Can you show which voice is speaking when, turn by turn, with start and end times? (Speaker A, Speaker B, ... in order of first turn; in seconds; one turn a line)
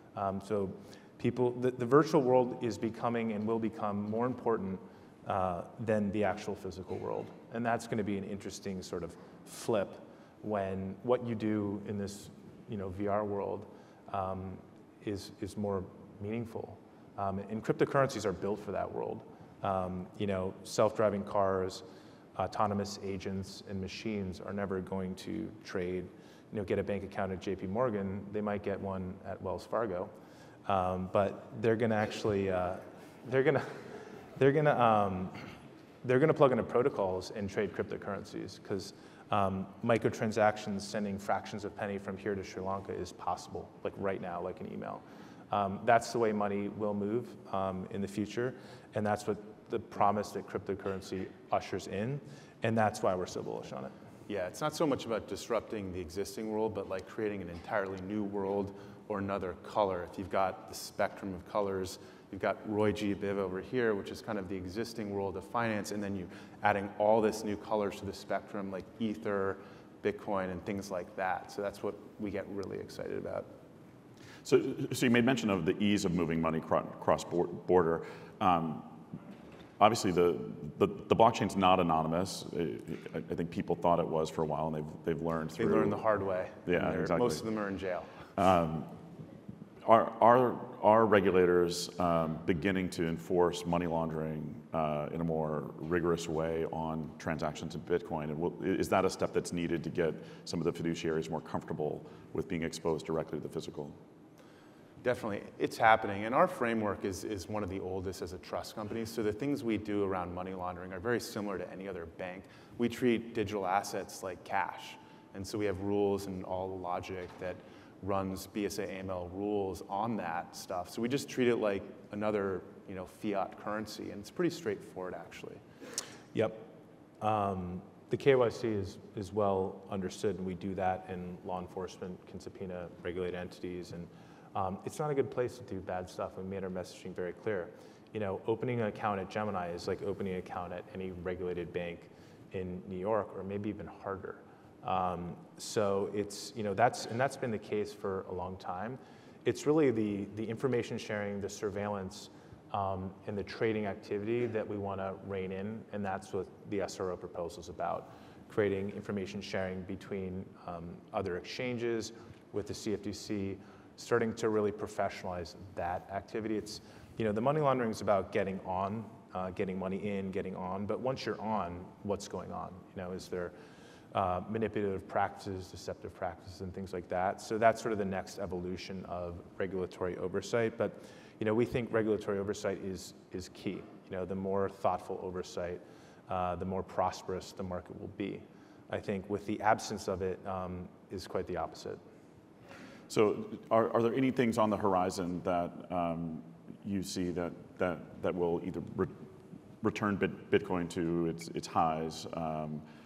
Speaker A: 0.1-21.8
Speaker A: 22.4-30.1
Speaker A: 30.6-35.5
Speaker A: 36.0-53.9
Speaker B: 54.3-73.5
Speaker C: 74.4-79.0
Speaker C: 79.8-86.0
Speaker B: 85.6-88.1
Speaker C: 86.7-87.4
Speaker C: 88.3-88.9
Speaker C: 89.8-104.0
Speaker B: 105.0-125.6
Speaker A: 126.3-126.7
Speaker A: 127.2-173.5
Speaker A: 174.1-192.0
Speaker C: 193.1-199.3
Speaker C: 199.8-202.8